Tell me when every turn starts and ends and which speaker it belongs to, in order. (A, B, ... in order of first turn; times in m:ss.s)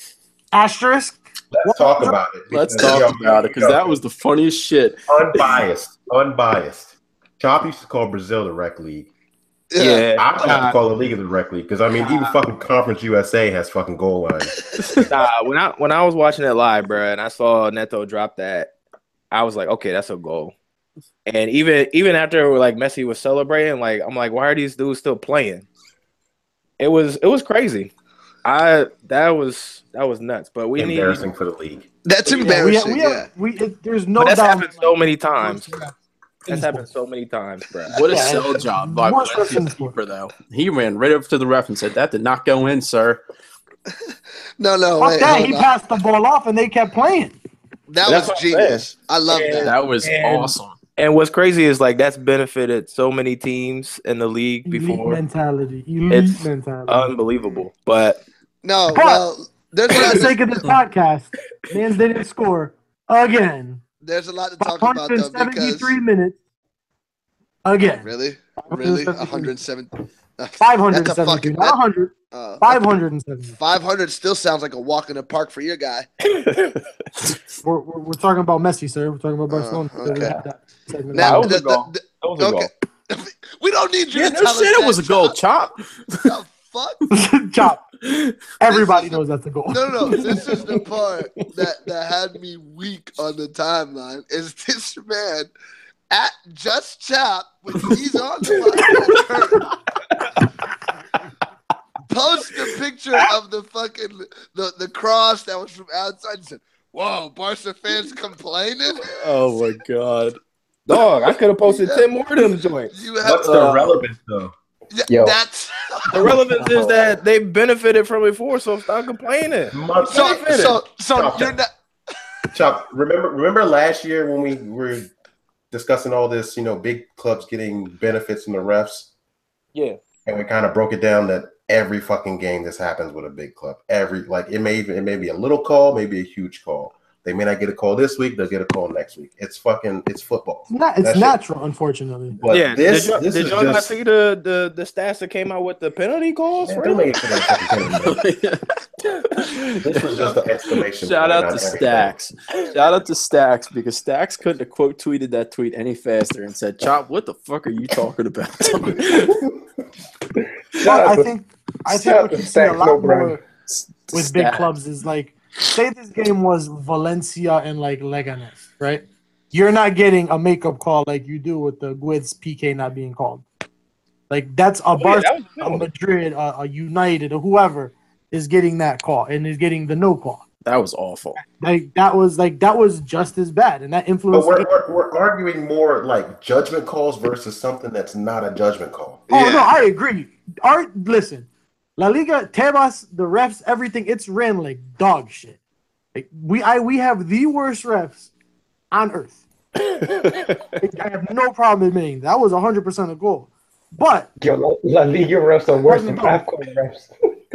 0:00.5-0:02.2 A
0:01.6-0:04.0 B
0:02.5-0:05.6 C
0:05.1-0:09.1 B
0:09.7-0:10.0 D
0:09.8-0:10.8 E
0:10.2-0:15.0 B
0:12.0-0:12.4 E
0:14.7-0:15.0 D
0:15.1-0:18.7 E
0:19.3-0:20.5 E
0:21.3-0:25.7 E
0:26.8-0:27.9 E
0:28.4-0:31.3 E
0:30.8-0:31.9 B
0:32.0-0:33.3 D
0:32.3-0:35.9 A
0:34.2-0:35.7 E
0:36.4-0:38.0 E
0:36.5-0:36.8 A
0:37.9-0:43.2 C
0:38.1-0:40.0 A
0:43.9-0:45.7 D
0:45.0-0:47.4 A
0:47.9-0:49.7 D
0:48.0-0:55.2 E
0:49.5-0:50.8 C
0:54.7-0:57.1 A
0:56.1-0:58.2 E
0:58.6-1:00.4 D
0:58.9-0:59.2 A
0:59.9-1:03.8 A
1:04.0-1:06.0 D
1:04.6-1:06.4 A
1:07.6-1:09.6 A
1:07.9-1:11.8 D
1:10.6-1:13.6 A
1:12.3-1:12.8 D
1:13.6-1:16.1 D
1:16.4-1:16.8 E
1:17.6-1:21.5 A
1:19.5-1:20.4 D
1:21.1-1:25.4 D
1:21.2-1:22.7 E
1:24.1-1:26.4 C
1:26.2-1:27.0 D
1:27.1-1:27.8 A
1:28.6-1:30.5 A
1:28.7-1:35.5 D
1:36.1-1:39.6 D
1:38.5-1:39.2 E
1:42.1-1:49.1 D
1:49.1-1:54.0 E
1:51.6-1:52.0 D
1:52.9-1:53.8 D
1:53.2-1:54.5 B
1:54.9-1:56.7 D
1:55.1-1:55.4 F
1:56.1-2:00.8 E
1:59.7-2:01.6 B
2:00.0-2:01.7 D
2:02.5-2:05.1 B
2:05.7-2:09.1 B
2:09.7-2:10.0 E
2:10.3-2:21.4 B
2:20.7-2:22.4 A
2:22.3-2:23.9 B
2:22.5-2:27.2 E
2:26.6-2:28.2 B
2:28.0-2:30.4 C
2:29.8-2:32.1 B
2:31.0-2:39.4 C
2:40.7-2:41.3 F
2:40.8-2:43.4 A
2:41.9-2:43.4 F
2:43.7-2:44.7 C
2:44.1-2:53.4 A
2:54.3-3:00.4 A
2:55.0-2:55.9 E
3:00.6-3:01.4 C
3:01.5-3:04.7 A
3:04.3-3:09.2 B
3:09.3-3:09.7 D
3:09.3-3:15.6 A
3:16.1-3:18.3 A
3:18.9-3:19.4 A
3:20.1-3:20.6 E
3:20.8-3:24.3 A
3:24.4-3:27.1 F
3:25.9-3:26.4 A